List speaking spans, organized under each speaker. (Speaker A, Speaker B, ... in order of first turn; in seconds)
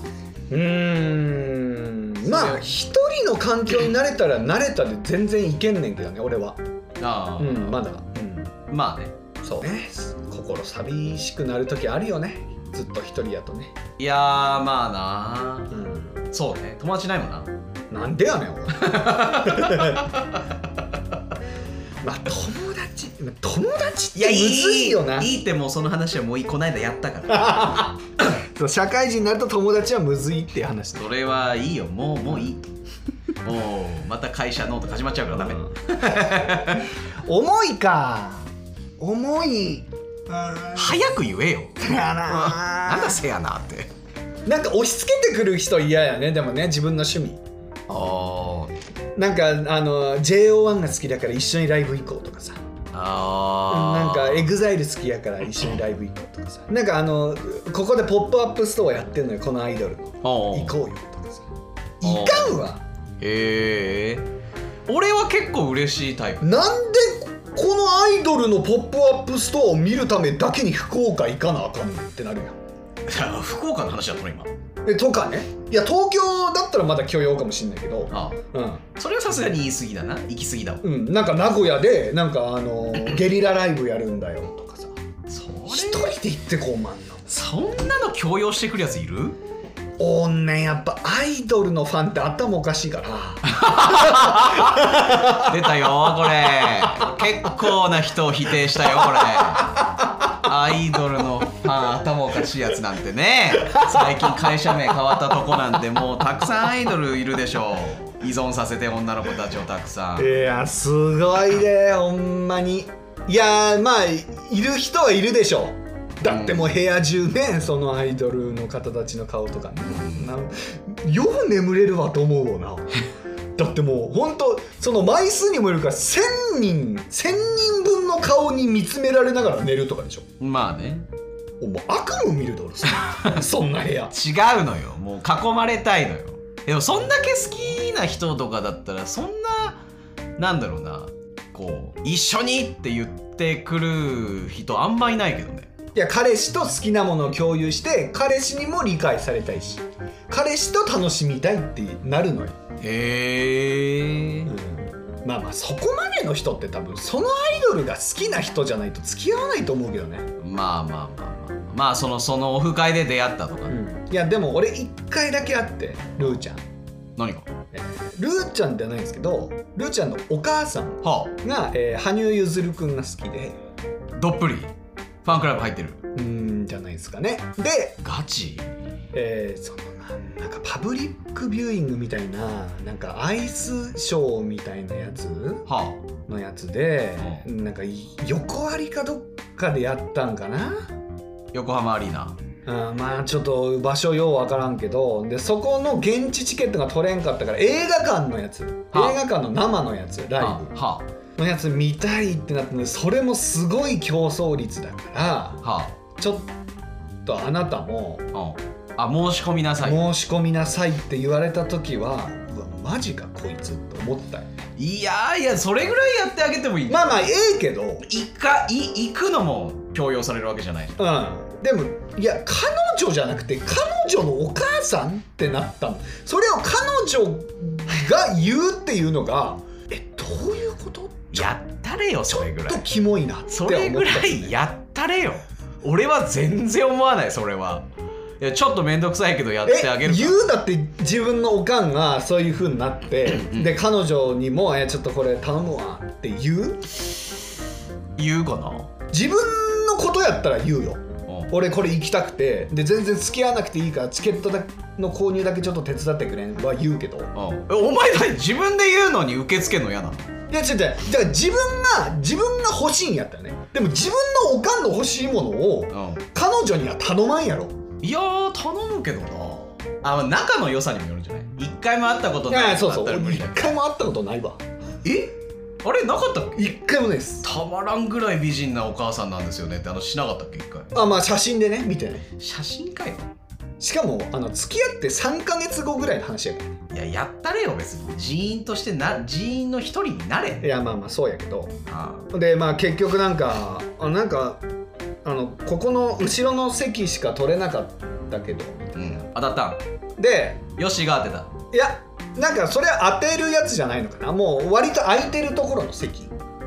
Speaker A: 0.5-6.6, 7.4-8.5, 9.4-13.8, 15.7-16.2, 17.9-20.2, 22.0-25.3, 27.3-31.1, 35.4-41.1, 41.8-43.2, 44.5-47.4, 49.2-52.6, 53.7-61.5, 62.0-62.8, 66.4-72.6, 74.8-78.8, 80.8-85.0, 85.7-87.3, 90.0-95.7, 96.3-97.1, 99.0-99.7, 103.5-104.5, 110.2-123.0, 123.6-130.3, 131.6-134.1, 145.9-152.6, 154.5-160.3, 163.7-166.6, 167.7-173.6, 176.2-178.0, 179.1-185.7, 186.3-190.9, 192.7-200.7, 201.4-205.6, 206.2-206.5, 207.2-208.3, 209.8-214.5, 216.9-218.0, 221.0-231.5, 232.3-234.6, 239.7-246.9, 249.1-257.3, 260.5-267.8, 272.5-274.6, 276.6-277.4, 280.9-282.3, 283.8-286.8, 290.6-291.8, 292.3-294.6, 295.2-299.0, 300.2-300.6, 301.7-306.3
Speaker B: 2.2-2.6, 7.0-7.8, 8.7-9.2, 14.0-15.8, 16.3-17.5, 18.8-20.4, 24.1-27.8, 30.9-32.6, 33.4-36.9, 40.8-43.9, 47.9-48.8, 52.9-54.5, 60.2-60.8, 62.0-62.6, 63.2-64.3, 64.9-66.5, 73.1-74.5, 78.1-78.4, 79.0-80.8, 85.3-86.1, 87.3-89.4, 93.5-110.4, 116.2-116.7, 119.9-120.3, 130.4-131.1, 132.9-133.4, 134.1-139.8, 140.4-145.7, 152.8-154.5, 160.4-163.8, 167.2-167.5, 171.0-171.3, 174.2-174.7, 175.2-176.0, 178.0-178.7, 185.7-186.0, 191.5-192.4, 198.9-199.2, 200.4-201.1, 205.6-206.0, 208.3-210.0, 214.8-217.2, 218.0-221.0, 231.3-232.8, 233.5-237.8, 238.4-240.4, 243.3-243.7, 248.2-248.9, 257.4-260.2, 265.9-266.2, 268.0-273.7, 275.0-276.8, 277.4-280.9, 282.4-283.3, 286.9-290.7, 291.9-292.3, 298.9-299.8, 300.8-301.5